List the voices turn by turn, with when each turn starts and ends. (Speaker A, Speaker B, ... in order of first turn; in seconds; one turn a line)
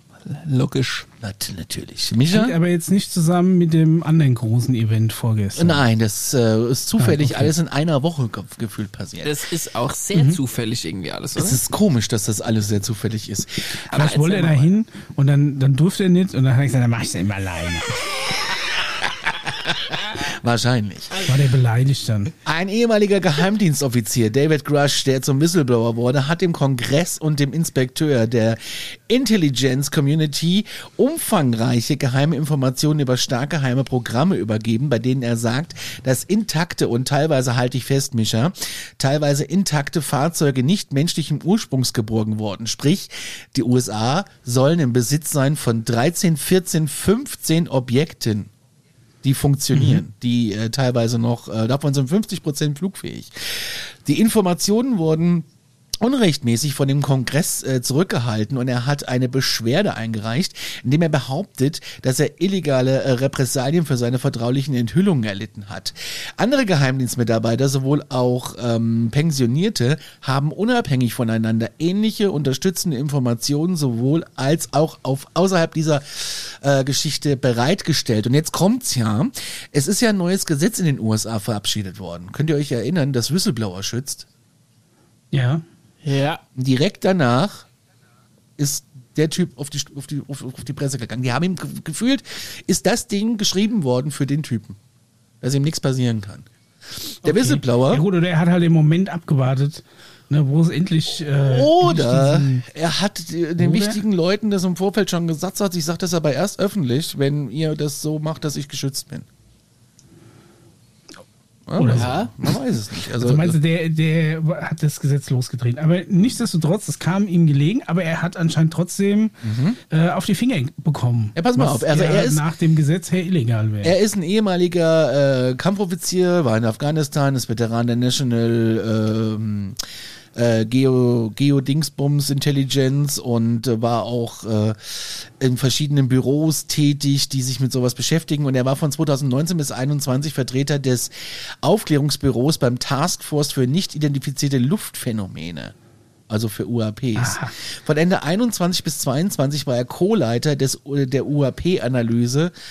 Speaker A: 0.2-1.1
Speaker B: 1.2-2.5
Speaker C: 2.3-5.8
Speaker B: 5.6-9.4
Speaker C: 7.0-7.5
Speaker A: 9.2-11.6
Speaker B: 11.4-13.7
Speaker C: 13.9-17.9
Speaker A: 13.9-14.7
Speaker B: 19.0-21.2
Speaker C: 21.2-22.3
Speaker B: 22.4-48.5
Speaker B: 49.2-55.5
Speaker C: 49.7-50.0
Speaker B: 56.0-84.3
Speaker C: 85.3-85.6
Speaker A: 86.0-86.4
Speaker B: 86.6-87.7
Speaker B: 88.6-94.8
Speaker B: 95.4-98.0
Speaker C: 97.2-102.7
Speaker B: 101.3-109.3
Speaker C: 103.6-104.0
Speaker B: 111.7-113.6
Speaker C: 111.8-112.2
Speaker C: 113.2-119.3
Speaker B: 119.4-119.8
Speaker C: 119.9-123.9
Speaker B: 121.3-122.4
Speaker B: 123.8-129.8
Speaker B: 130.3-145.8
Speaker B: 146.3-152.5
Speaker C: 147.2-147.5